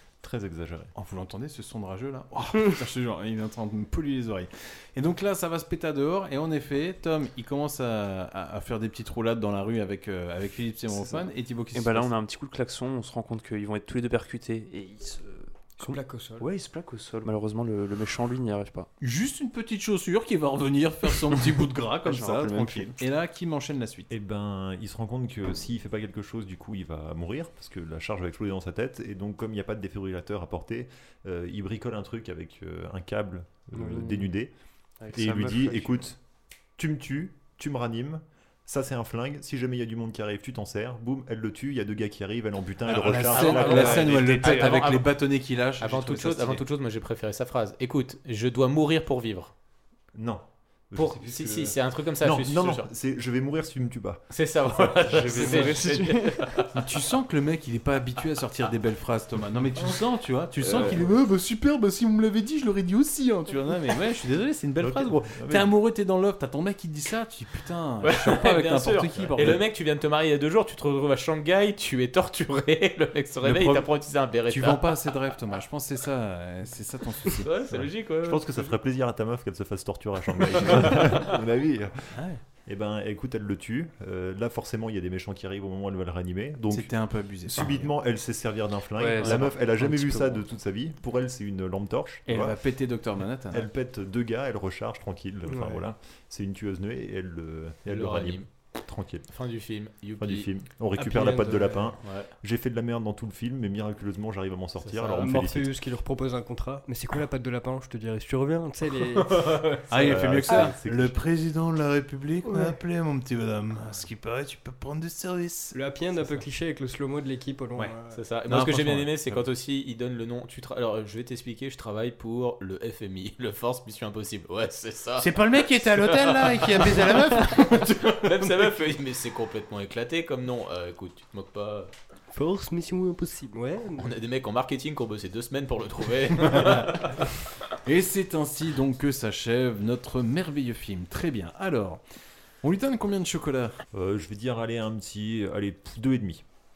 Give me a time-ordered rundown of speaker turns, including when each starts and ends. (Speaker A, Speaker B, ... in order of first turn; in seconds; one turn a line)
Speaker A: 0.2-0.9
Speaker B: 0.9-12.1
Speaker C: 10.9-18.9
Speaker D: 15.8-16.4
Speaker B: 19.0-24.1
Speaker C: 22.0-22.9
Speaker A: 24.1-34.5
Speaker D: 33.7-34.3
Speaker C: 35.0-36.0
Speaker A: 35.1-36.2
Speaker A: 36.8-44.3
Speaker B: 42.9-46.6
Speaker E: 43.3-49.5
Speaker C: 43.5-44.8
Speaker A: 50.1-55.0
Speaker E: 50.9-52.9
Speaker E: 54.3-56.7
Speaker C: 55.0-56.5
Speaker B: 56.7-69.6
Speaker C: 60.6-61.0
Speaker A: 64.8-65.7
Speaker E: 68.0-74.9
Speaker B: 73.4-73.9
Speaker B: 74.5-77.5
Speaker E: 77.3-78.7
Speaker A: 77.7-92.6
Speaker E: 80.5-81.1
Speaker B: 82.1-82.4
Speaker B: 86.7-87.9
Speaker C: 89.0-90.5
Speaker B: 92.2-93.7
Speaker A: 93.5-99.3
Speaker D: 95.5-95.8
Speaker E: 97.9-98.5
Speaker E: 99.3-100.5
Speaker A: 100.2-105.7
Speaker B: 101.0-101.7
Speaker E: 102.0-102.3
Speaker E: 104.8-105.3
Speaker D: 105.2-109.7
Speaker E: 109.2-110.1
Speaker B: 109.9-116.4
Speaker A: 109.9-111.2
Speaker D: 112.5-112.7
Speaker D: 115.7-118.2
Speaker E: 118.1-131.9
Speaker B: 118.5-119.2
Speaker B: 125.2-128.2
Speaker D: 132.3-134.1
Speaker E: 134.0-137.3
Speaker B: 136.4-137.1
Speaker B: 137.8-142.0
Speaker B: 142.6-143.8
Speaker A: 143.9-146.4